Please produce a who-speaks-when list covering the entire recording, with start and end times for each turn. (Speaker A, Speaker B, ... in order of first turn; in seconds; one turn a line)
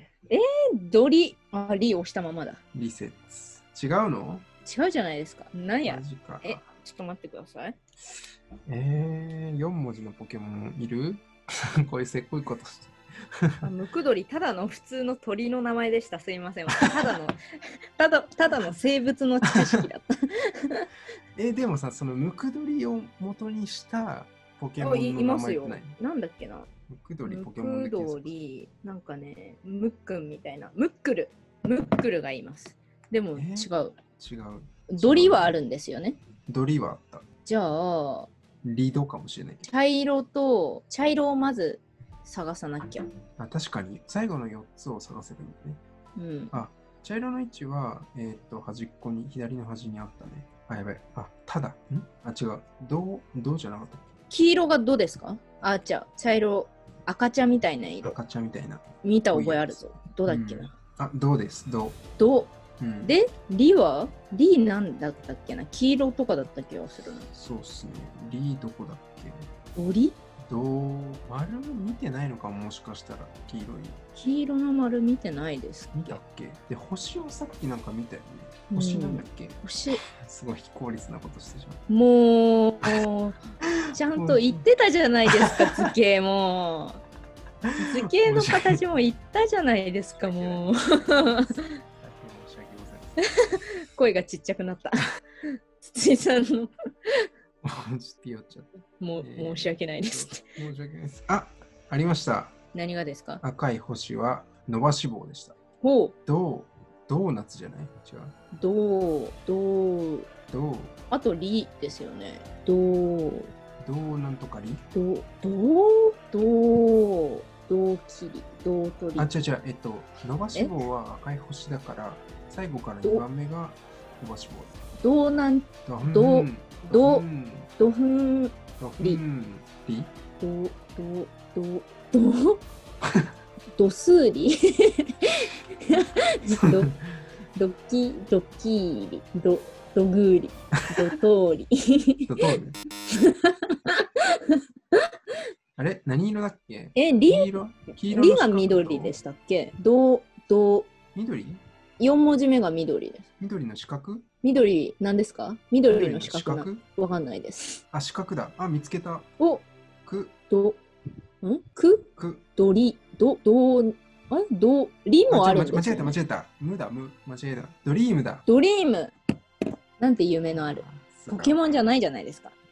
Speaker A: 0.3-2.6
Speaker B: 2.7-4.4
Speaker A: 4.7-7.8
Speaker B: 5.8-6.6
Speaker B: 8.7-11.3
Speaker B: 11.8-13.6
Speaker A: 13.6-17.4
Speaker A: 18.0-20.8
Speaker B: 21.4-25.9
Speaker A: 24.8-26.7
Speaker B: 26.9-28.3
Speaker A: 27.2-34.0
Speaker B: 33.3-35.6
Speaker A: 34.9-36.2
Speaker B: 36.5-37.2
Speaker A: 37.5-38.3
Speaker B: 38.6-39.6
Speaker A: 39.6-43.0
Speaker B: 43.4-45.8
Speaker A: 46.2-46.5
Speaker B: 46.5-54.1
Speaker A: 54.3-58.1
Speaker B: 58.0-62.0
Speaker A: 59.0-60.7
Speaker A: 62.2-67.3
Speaker B: 62.8-63.1
Speaker B: 67.3-69.5
Speaker A: 69.8-70.2
Speaker B: 70.4-74.0
Speaker A: 74.1-76.2
Speaker B: 75.9-81.8
Speaker A: 78.7-80.0
Speaker A: 81.9-83.4
Speaker B: 83.6-84.6
Speaker A: 83.9-87.0
Speaker B: 85.3-85.9
Speaker B: 87.6-88.8
Speaker A: 87.8-91.6
Speaker B: 90.1-93.2
Speaker A: 93.2-95.0
Speaker A: 95.8-97.3
Speaker B: 97.6-102.5
Speaker A: 99.0-100.4
Speaker A: 102.7-103.4
Speaker B: 103.4-105.6
Speaker A: 105.8-106.1
Speaker B: 106.2-108.3
Speaker A: 108.5-110.3
Speaker B: 110.5-110.9
Speaker A: 111.1-113.5
Speaker B: 113.8-114.8
Speaker A: 114.9-119.3
Speaker B: 119.2-124.7
Speaker A: 125.0-127.2
Speaker B: 125.8-127.8
Speaker A: 127.8-129.2
Speaker B: 128.8-130.1
Speaker A: 130.4-132.6
Speaker A: 133.7-136.9
Speaker B: 136.5-137.2
Speaker A: 137.5-142.6
Speaker B: 142.3-142.8
Speaker A: 143.1-145.0
Speaker B: 145.8-149.2
Speaker A: 146.9-150.9
Speaker B: 151.1-151.6
Speaker A: 152.0-153.2
Speaker B: 153.4-154.2
Speaker A: 154.4-157.8
Speaker B: 155.9-156.8
Speaker B: 157.9-159.3
Speaker A: 159.4-159.7
Speaker B: 160.0-160.3
Speaker A: 160.5-160.8
Speaker A: 161.4-166.2
Speaker B: 162.2-162.4
Speaker B: 165.3-168.4
Speaker A: 168.5-169.1
Speaker A: 170.0-172.5
Speaker B: 170.5-171.8